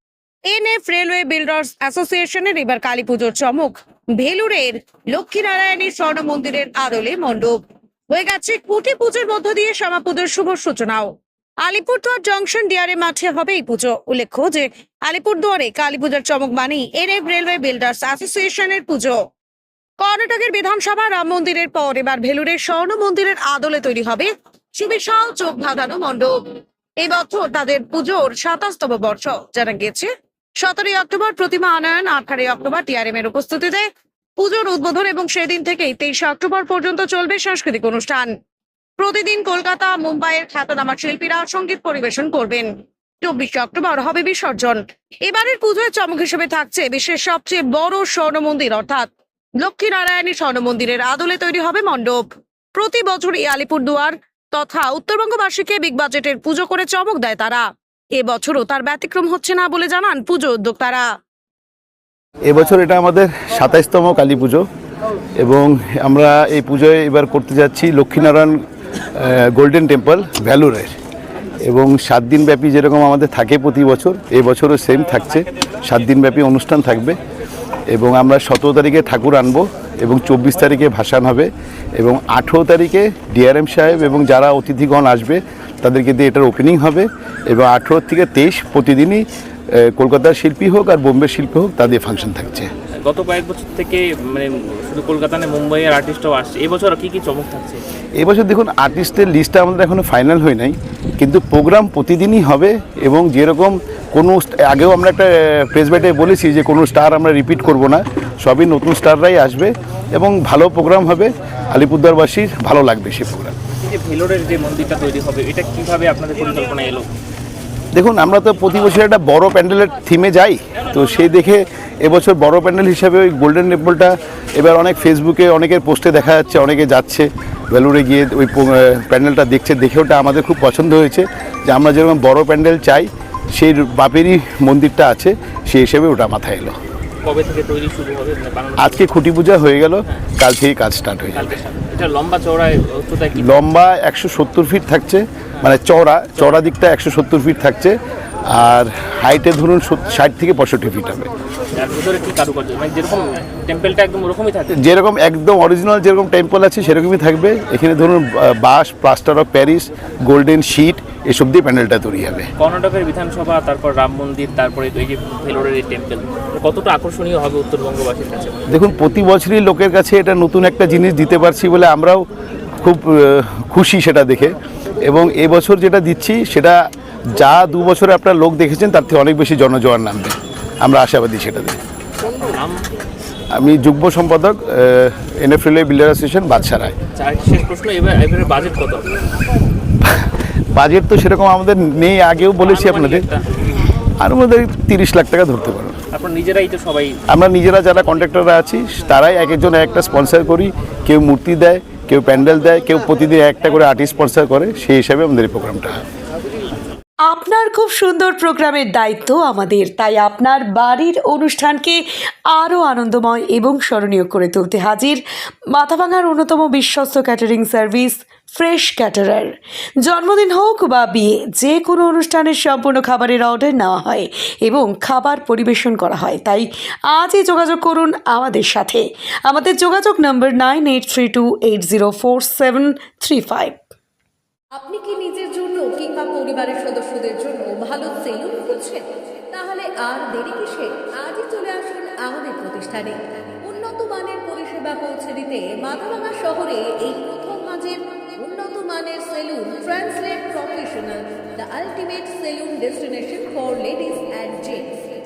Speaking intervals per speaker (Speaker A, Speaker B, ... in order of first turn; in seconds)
Speaker A: 0.5-19.2, 20.0-30.1, 30.6-33.9, 34.4-38.3, 39.0-42.7, 43.2-61.0
Speaker B: 62.5-64.7, 65.4-68.6, 69.1-70.9, 71.6-77.2, 77.9-92.7, 98.2-113.5, 117.9-136.8, 138.8-141.5, 143.3-148.0, 148.5-151.3, 154.7-162.5, 168.7-172.2, 172.8-176.8, 177.3-181.8, 183.5-186.9, 190.0-193.2, 194.2-196.0, 197.3-206.0
Speaker C: 93.0-97.8, 113.8-117.1, 137.2-139.1, 141.3-143.6, 151.8-154.8, 162.6-168.6, 182.5-182.8, 187.2-189.1, 192.6-193.7, 196.1-197.2
Speaker D: 207.2-233.8
Speaker E: 234.8-255.0